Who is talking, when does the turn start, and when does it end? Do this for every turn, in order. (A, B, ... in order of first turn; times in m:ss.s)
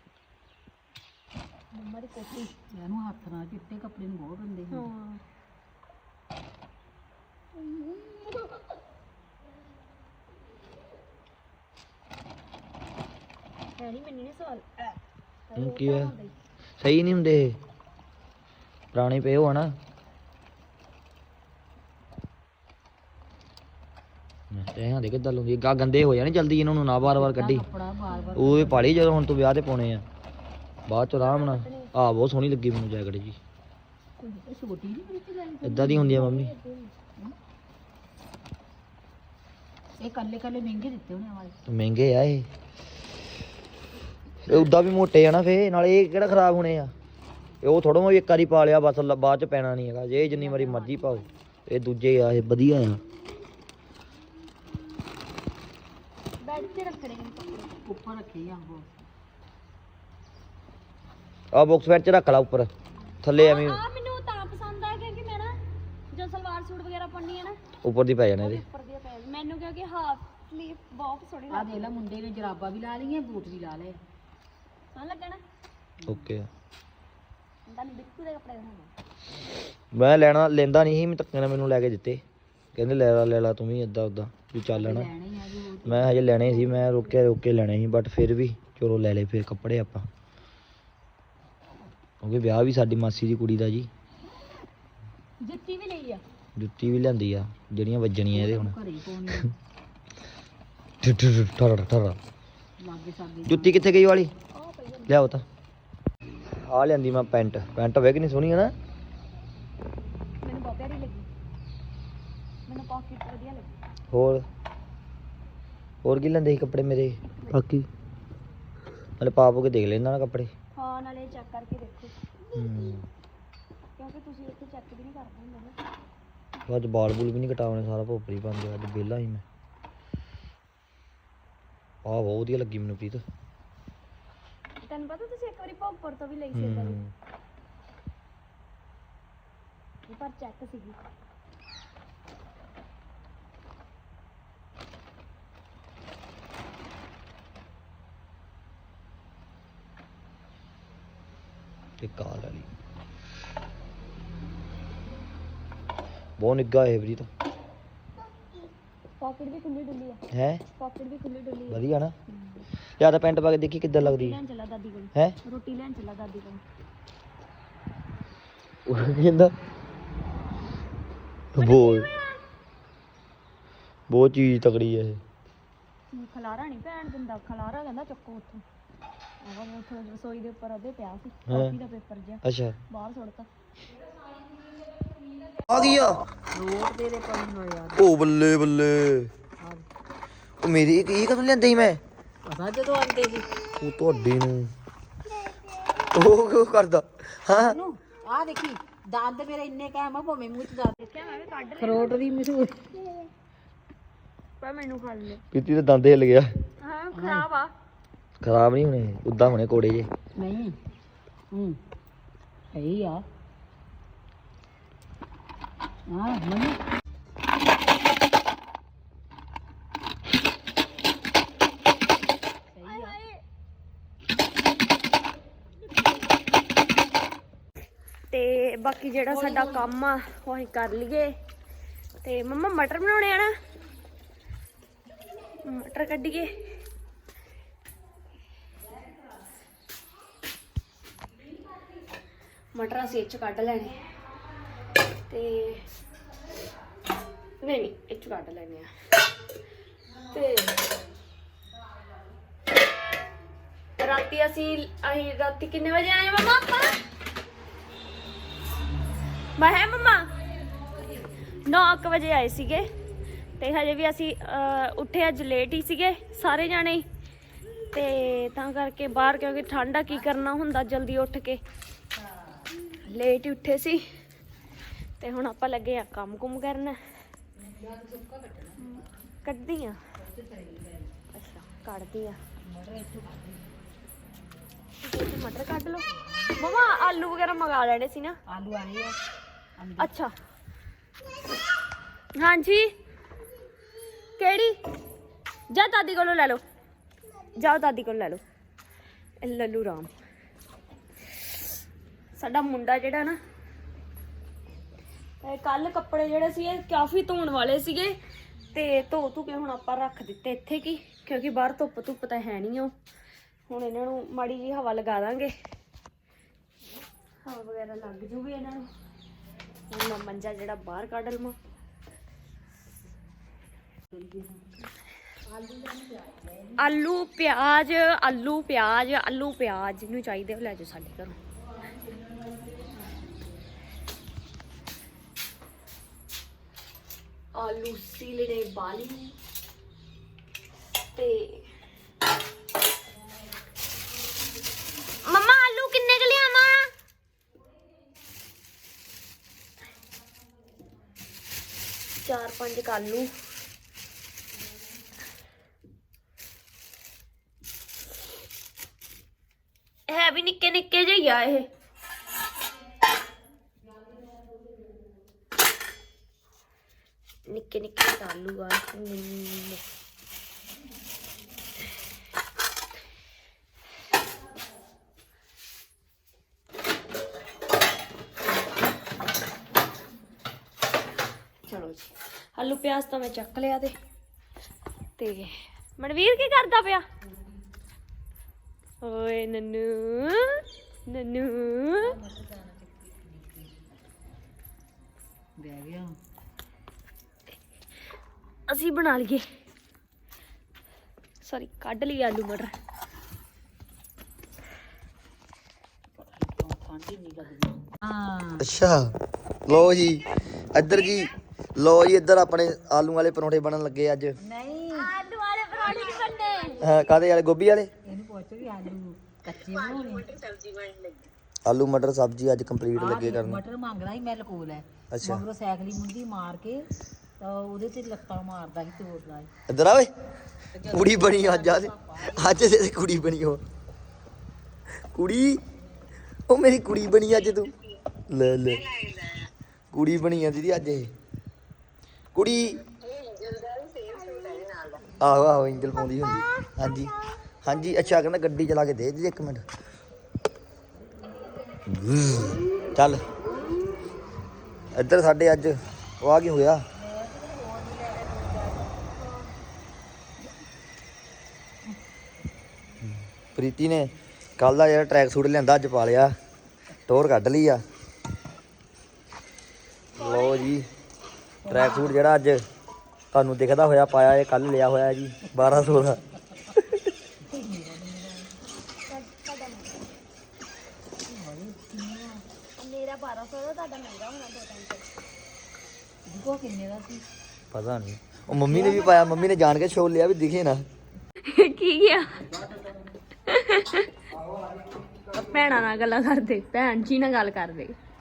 0:01.7-0:02.5 A
0:02.7-0:04.9 B
0:04.7-0:05.2 A
0:07.6-0:08.5 A
0:13.8-0:14.9 A
0:15.5-0:16.3 A
0:15.6-0:16.1 C
0:16.8-0:17.6 C
0:18.9-0:19.7 C
0:24.5-0:27.6 C
0:27.0-0:29.1 B
0:28.4-0:30.0 C
0:30.9-0:33.4 C
0:31.2-0:31.9 A
0:34.4-0:36.2 B
0:35.6-0:36.5 C
0:35.6-0:36.9 A
0:40.0-0:41.6 B
0:41.7-0:42.5 C
0:44.4-0:46.9 C
0:47.6-0:53.0 C
0:50.2-0:51.4 B
0:56.4-0:57.8 A
0:57.8-0:59.0 B
1:01.5-1:02.7 C
1:03.2-1:03.8 C
1:03.4-1:05.6 A
1:06.1-1:07.6 A
1:07.8-1:08.6 C
1:08.4-1:11.9 A
1:11.5-1:14.0 B
1:14.9-1:15.4 A
1:16.0-1:16.5 C
1:17.7-1:18.9 A
1:19.9-1:22.2 C
1:22.7-1:25.1 C
1:24.7-1:26.8 B
1:25.8-1:30.1 C
1:32.2-1:33.9 C
1:35.4-1:36.2 A
1:36.6-1:38.7 C
1:38.3-1:39.5 B
1:41.0-1:42.2 C
1:42.8-1:43.8 B
1:43.4-1:44.3 C
1:44.5-1:45.1 A
1:45.1-1:45.4 C
1:46.5-1:48.7 C
1:50.4-1:51.3 A
1:52.7-1:53.7 A
1:54.1-1:54.4 C
1:56.0-1:57.9 C
1:59.2-2:00.5 C
2:00.7-2:02.2 A
2:02.5-2:03.1 C
2:04.0-2:05.8 A
2:06.7-2:09.4 C
2:12.0-2:13.2 C
2:14.8-2:17.0 A
2:16.5-2:17.1 C
2:20.1-2:21.0 A
2:32.0-2:32.7 C
2:36.4-2:37.3 C
2:39.2-2:40.2 A
2:40.3-2:40.6 C
2:40.8-2:42.6 A
2:41.7-2:42.1 C
2:43.0-2:44.4 C
2:44.0-2:46.6 A
2:48.9-2:49.5 C
2:51.5-2:52.1 C
2:51.6-2:52.4 A
2:54.1-2:55.2 C
2:56.1-2:58.6 A
2:59.4-3:03.5 A
3:01.5-3:01.8 C
3:02.4-3:02.8 C
3:05.7-3:06.2 C
3:06.5-3:08.0 B
3:08.0-3:09.3 C
3:10.6-3:12.0 C
3:12.5-3:13.5 B
3:13.8-3:14.7 C
3:16.1-3:17.8 C
3:17.5-3:21.0 B
3:21.0-3:22.2 A
3:21.8-3:23.0 B
3:24.6-3:25.4 A
3:25.5-3:26.5 C
3:26.8-3:27.7 A
3:27.1-3:27.5 B
3:28.4-3:30.1 C
3:30.4-3:30.8 B
3:31.5-3:31.8 B
3:32.7-3:33.2 B
3:36.1-3:36.8 B
3:42.7-3:43.2 B
3:42.8-3:43.4 A
3:48.3-3:51.3 A
3:49.3-3:49.9 B
3:52.2-3:53.5 A
3:55.6-3:56.5 A
4:02.7-4:04.0 A
4:05.3-4:05.8 A
4:07.6-4:08.9 A
4:10.3-4:10.8 A
4:14.0-4:17.0 A
4:19.6-4:20.3 A
4:21.6-4:22.9 A
4:23.6-4:27.0 A
4:27.9-4:31.6 A
4:32.2-4:32.7 B
4:33.0-4:34.0 A
4:35.2-4:37.0 A
4:37.5-4:39.1 B
4:38.8-4:40.0 A
4:40.1-4:41.1 B
4:41.3-4:42.4 A
4:42.6-4:43.6 B
4:45.0-4:46.0 A
4:46.2-4:46.5 B
4:46.6-4:48.4 A
4:48.5-4:49.2 B
4:49.8-4:50.2 B
4:50.0-4:50.3 A
4:52.4-4:52.9 A
4:54.4-4:54.8 A
4:55.7-4:56.6 A
4:57.6-4:58.4 A
4:59.4-5:00.1 A
5:02.4-5:03.4 A
5:05.4-5:08.2 A
5:08.7-5:12.9 A
5:13.7-5:15.5 A
5:17.4-5:18.9 A
5:19.9-5:21.6 A
5:24.1-5:24.7 B
5:25.5-5:26.8 B
5:26.8-5:31.4 A
5:31.7-5:33.4 B
5:37.5-5:39.3 A
5:41.1-5:41.6 A
5:45.2-5:46.9 A
5:52.2-5:53.3 A
6:00.1-6:01.7 A
6:07.5-6:09.8 A
6:21.7-6:23.9 A
6:25.2-6:27.0 A
6:27.2-6:27.5 B
6:29.0-6:32.1 A
6:32.0-6:33.8 B
6:35.6-6:36.1 B
6:38.7-6:39.4 A
6:41.4-6:42.7 A
6:46.2-6:48.7 B
6:48.6-6:54.4 C
6:54.4-6:55.1 B
6:54.9-6:56.8 A
6:56.8-6:57.9 C
6:58.0-7:00.5 B
7:01.6-7:03.6 C
7:03.0-7:06.9 B
7:05.1-7:05.4 C
7:07.4-7:09.5 B
7:09.7-7:10.1 C
7:10.7-7:12.6 B
7:10.9-7:13.6 C
7:15.1-7:15.6 C
7:16.5-7:17.7 C
7:18.3-7:19.3 C
7:19.9-7:21.1 C
7:22.3-7:22.8 C
7:25.1-7:29.6 C
7:31.2-7:31.8 B
7:31.9-7:33.2 C
7:34.9-7:36.8 C
7:37.0-7:39.4 B
7:43.0-7:46.3 C
7:47.1-7:47.8 C
7:50.2-7:50.9 C
7:50.2-7:50.7 A
7:51.6-7:52.1 B
7:51.7-7:52.6 C
7:53.3-7:56.2 C
7:55.6-7:56.0 B
7:57.4-7:58.5 B
7:59.0-8:00.1 A
8:01.2-8:02.4 B
8:02.8-8:05.1 A
8:06.3-8:07.2 B
8:07.7-8:10.8 C
8:08.7-8:09.5 A
8:11.4-8:12.4 A
8:12.3-8:13.1 B
8:13.5-8:14.1 A
8:15.4-8:18.0 A